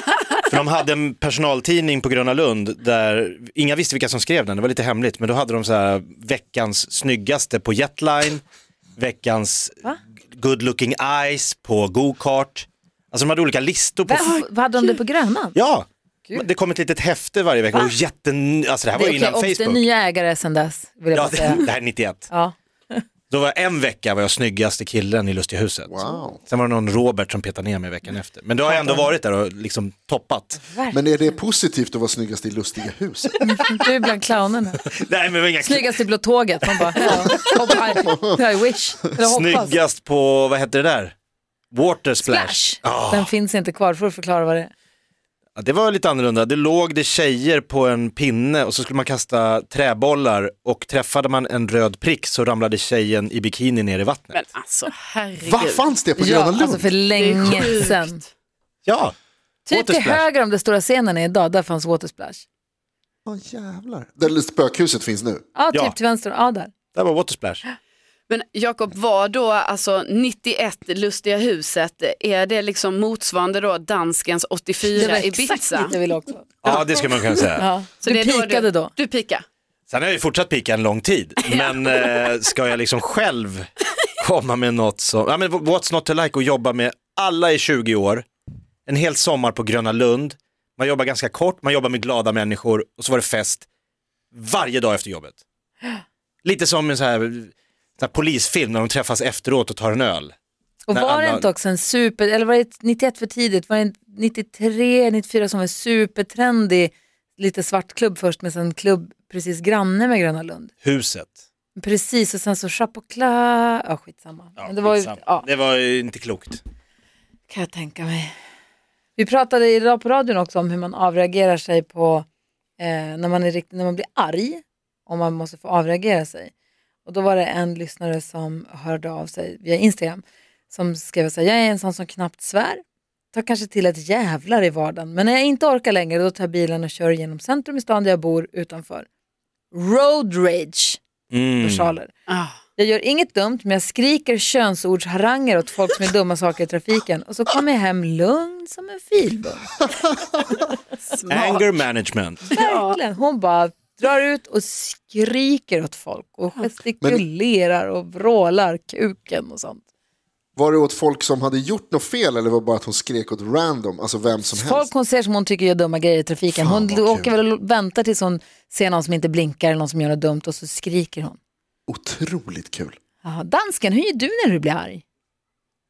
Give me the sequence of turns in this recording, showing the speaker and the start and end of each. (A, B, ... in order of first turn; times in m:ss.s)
0:00.4-0:08.4 A
0:09.0-0:14.3 A
0:14.0-0:15.6 B
0:14.2-0:14.9 C
0:15.5-0:19.8 A
0:17.7-0:18.0 B
0:18.9-0:21.6 B
0:21.1-0:22.2 A
0:22.3-0:23.0 B
0:23.3-0:25.9 A
0:25.9-0:26.4 D
0:26.4-0:30.6 A
0:28.6-0:29.1 B
0:30.7-0:31.3 B
0:30.9-0:33.3 D
0:33.4-0:34.8 B
0:34.9-0:36.0 A
0:35.6-0:39.8 B
0:36.9-0:37.4 A
0:38.0-0:38.4 D
0:39.2-0:41.1 A
0:41.7-0:43.3 A
0:42.2-0:44.7 B
0:45.6-0:54.4 A
0:54.3-0:56.0 C
0:55.4-0:56.9 D
0:56.2-0:58.2 B
0:57.1-0:58.3 C
0:58.8-0:59.1 A
0:59.7-1:00.2 A
0:59.7-1:02.4 B
1:03.2-1:05.4 D
1:05.5-1:06.7 B
1:06.9-1:07.6 A
1:08.3-1:15.9 C
1:14.9-1:16.5 B
1:16.6-1:17.6 A
1:16.6-1:19.4 C
1:17.6-1:18.9 B
1:19.9-1:23.7 A
1:21.4-1:22.2 C
1:24.2-1:28.2 A
1:28.9-1:33.7 A
1:34.3-1:35.4 A
1:36.4-1:40.3 A
1:40.9-1:50.7 B
1:40.9-1:41.5 A
1:50.8-1:51.4 A
1:51.7-1:55.5 B
1:54.6-1:56.6 A
1:57.5-1:58.3 B
1:59.2-2:02.2 B
2:02.8-2:06.5 B
2:07.0-2:19.1 B
2:19.7-2:21.0 B
2:21.3-2:21.9 A
2:21.6-2:22.1 B
2:22.3-2:22.6 C
2:22.8-2:29.8 B
2:31.1-2:31.7 C
2:31.3-2:32.4 A
2:32.5-2:33.0 C
2:32.5-2:39.8 B
2:40.6-2:44.9 D
2:44.5-2:51.4 B
2:46.5-2:47.3 D
2:51.9-2:53.0 D
2:53.2-2:55.0 B